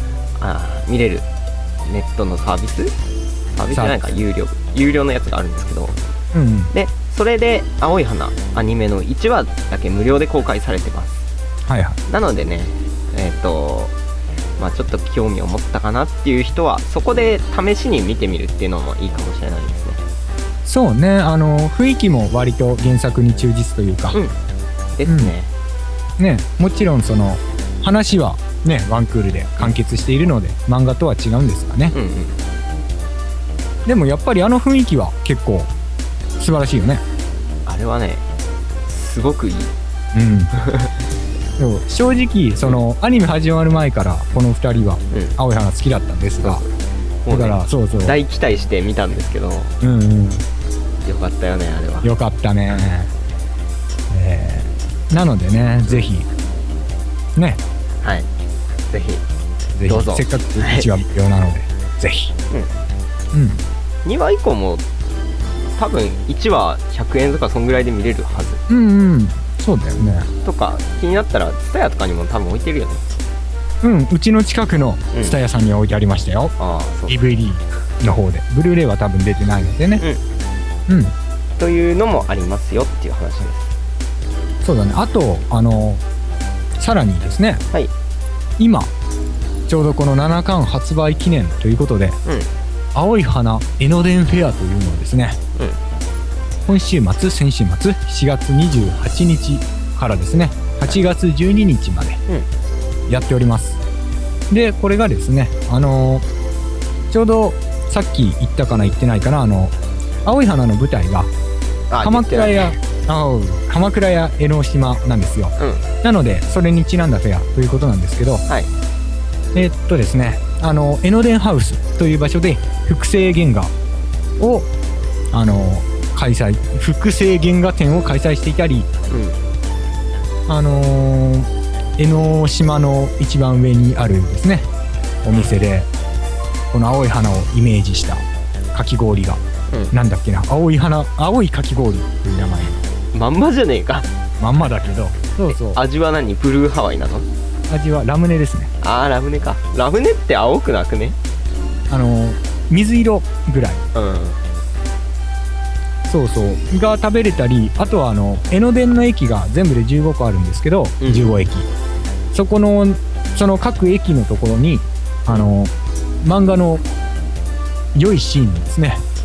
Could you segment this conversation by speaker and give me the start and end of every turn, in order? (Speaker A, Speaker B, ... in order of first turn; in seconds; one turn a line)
Speaker A: 0.4-1.2
Speaker A: 1.8-2.9
Speaker A: 3.5-6.0
Speaker B: 3.7-4.0
Speaker B: 6.3-6.7
Speaker A: 6.7-11.3
Speaker B: 11.7-12.0
Speaker A: 12.1-13.9
Speaker A: 14.6-20.0
Speaker B: 20.6-24.2
Speaker A: 24.9-25.5
Speaker B: 25.1-25.3
Speaker B: 26.2-31.9
Speaker A: 31.9-32.4
Speaker B: 33.9-35.7
Speaker B: 36.4-37.0
Speaker A: 37.6-38.2
Speaker A: 38.9-39.7
Speaker B: 40.1-40.5
Speaker A: 40.6-40.9
Speaker B: 41.6-46.6
Speaker A: 45.1-45.4
Speaker A: 46.4-46.7
Speaker A: 47.2-49.7
Speaker B: 47.3-48.1
Speaker B: 49.8-50.4
Speaker A: 51.0-52.1
Speaker B: 52.0-53.1
Speaker B: 54.1-56.3
Speaker A: 58.0-58.3
Speaker A: 58.9-59.2
Speaker B: 59.8-62.3
Speaker A: 59.9-60.9
Speaker B: 63.3-63.6
Speaker A: 64.0-64.8
Speaker A: 65.8-68.6
Speaker B: 68.7-70.3
Speaker A: 70.4-73.0
Speaker B: 73.8-76.5
Speaker A: 76.6-77.2
Speaker B: 77.1-80.0
Speaker B: 80.9-81.1
Speaker A: 81.6-83.7
Speaker B: 84.6-86.0
Speaker B: 86.8-87.6
Speaker B: 88.6-88.9
Speaker B: 89.7-92.2
Speaker B: 92.9-95.4
Speaker B: 96.7-102.2
Speaker B: 103.1-103.8
Speaker B: 104.5-106.2
Speaker B: 107.1-109.7
Speaker B: 110.2-111.3
Speaker A: 111.9-112.7
Speaker B: 112.0-118.5
Speaker A: 115.6-115.8
Speaker B: 119.5-123.7
Speaker B: 124.4-124.7
Speaker B: 125.3-128.9
Speaker A: 129.1-129.4
Speaker B: 130.5-134.7
Speaker B: 135.2-135.9
Speaker B: 136.7-139.4
Speaker B: 139.9-142.8
Speaker A: 143.1-144.1
Speaker B: 144.4-145.8
Speaker A: 145.5-147.2
Speaker B: 147.7-148.7
Speaker A: 148.8-151.2
Speaker B: 151.9-153.8
Speaker A: 153.9-154.4
Speaker B: 156.1-161.7
Speaker A: 161.0-161.3
Speaker B: 162.3-166.8
Speaker B: 167.9-169.0